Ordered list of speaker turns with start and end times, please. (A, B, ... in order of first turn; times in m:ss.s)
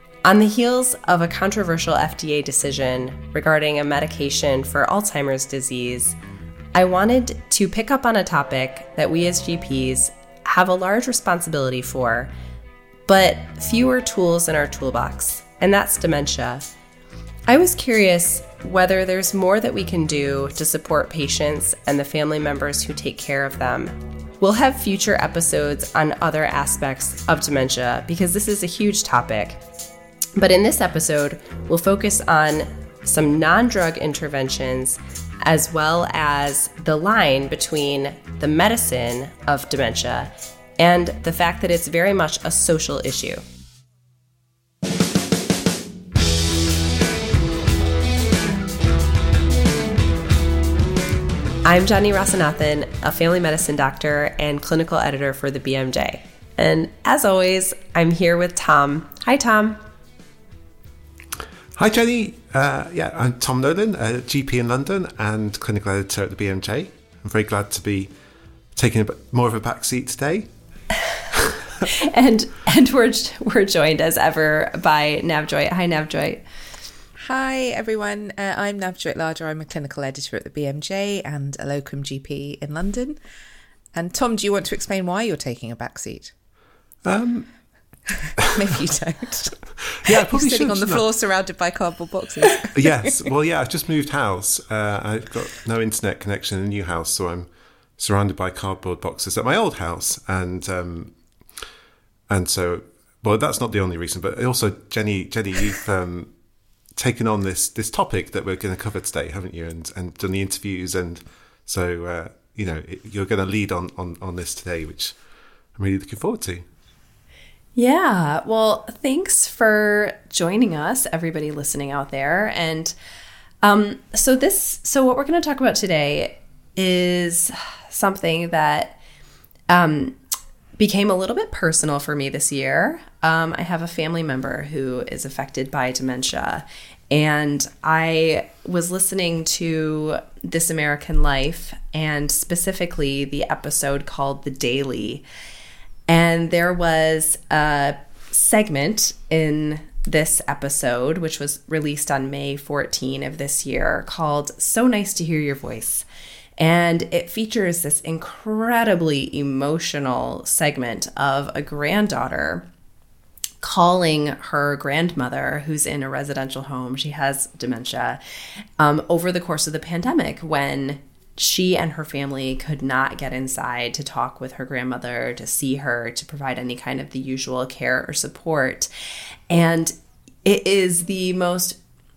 0:00.2-0:06.2 A
0:06.7-0:12.3 A
0:13.0-0:16.7 A
0:17.5-0:29.6 A
0:30.4-0:43.4 A
0:51.6-0:59.8 A
1:01.7-1:08.1 B
1:08.7-1:10.5 B
1:12.0-1:16.4 A
1:17.2-1:23.2 C
1:23.9-1:26.3 C
1:27.0-1:27.5 B
1:28.5-1:33.2 C
1:30.0-1:31.0 B
1:32.7-1:41.6 B
1:42.3-1:46.4 B
1:46.9-1:55.2 B
1:55.7-1:56.7 B
1:57.7-2:02.9 A
2:03.6-2:09.0 A
2:09.7-2:10.2 A
2:10.8-2:25.2 A
2:26.1-2:36.0 A
2:36.6-2:42.7 A
2:43.6-2:48.2 A
2:48.8-2:58.9 A
2:59.5-2:59.9 A
3:00.4-3:01.8 A